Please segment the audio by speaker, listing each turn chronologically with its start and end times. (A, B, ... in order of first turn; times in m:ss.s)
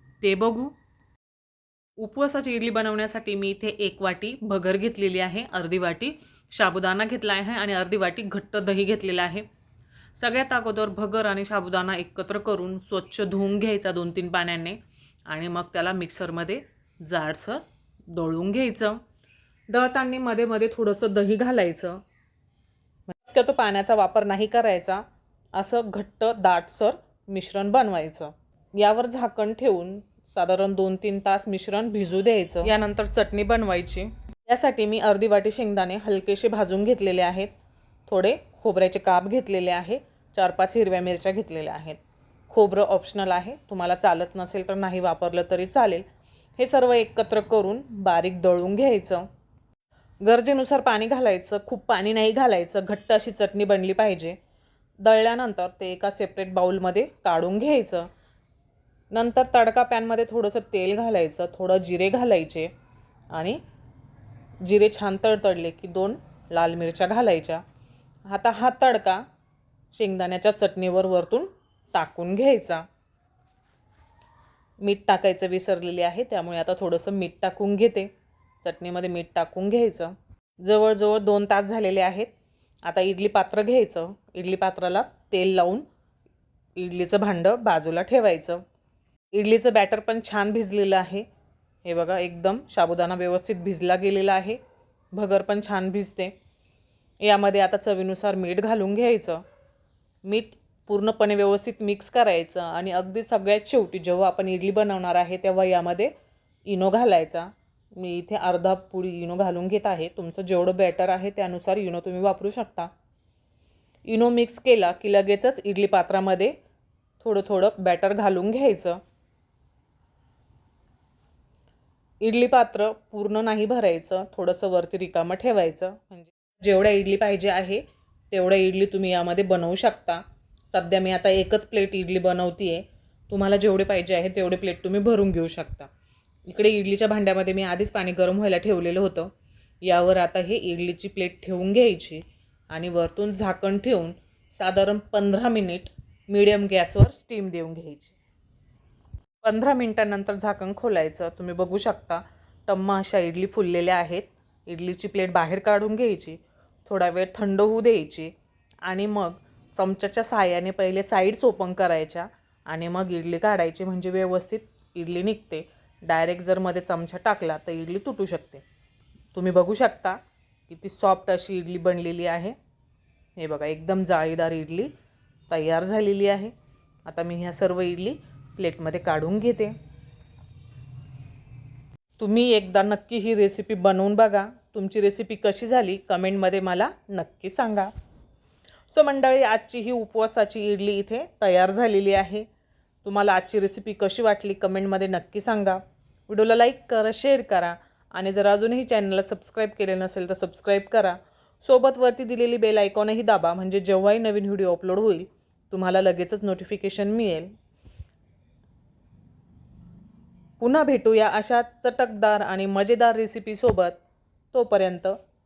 0:00.2-0:00.8 A
0:02.0-0:09.5 A
0:10.2-0:19.0 A
0:19.7-0:22.0 A
0:23.1-0:37.5 A
0:38.1-0:46.1 A
0:46.6-0:49.3 A
0:50.2-0:54.4 A
0:55.0-0:58.1 A
0:59.1-1:02.7 A
1:03.3-1:03.6 A
1:04.6-1:07.6 A
1:08.3-1:09.2 A
1:09.9-1:12.9 A
1:14.8-1:22.3 A
1:22.8-1:25.9 A
1:26.8-1:28.6 A
1:29.3-1:31.3 A
1:31.8-1:34.6 A
1:35.1-1:36.3 A
1:37.2-1:39.4 A
1:40.2-1:46.1 A
1:46.6-1:52.9 A
1:54.0-1:56.6 A
1:57.2-1:59.0 A
2:02.2-2:15.9 A
2:16.5-2:28.2 A
2:29.4-2:48.6 A
2:49.3-2:52.6 A
2:53.4-2:54.9 A
2:55.5-2:56.5 A
2:57.1-2:59.8 A
3:02.2-3:07.9 A
3:08.9-3:12.5 A
3:13.0-3:27.5 A
3:30.6-3:34.0 A
3:34.5-3:35.2 A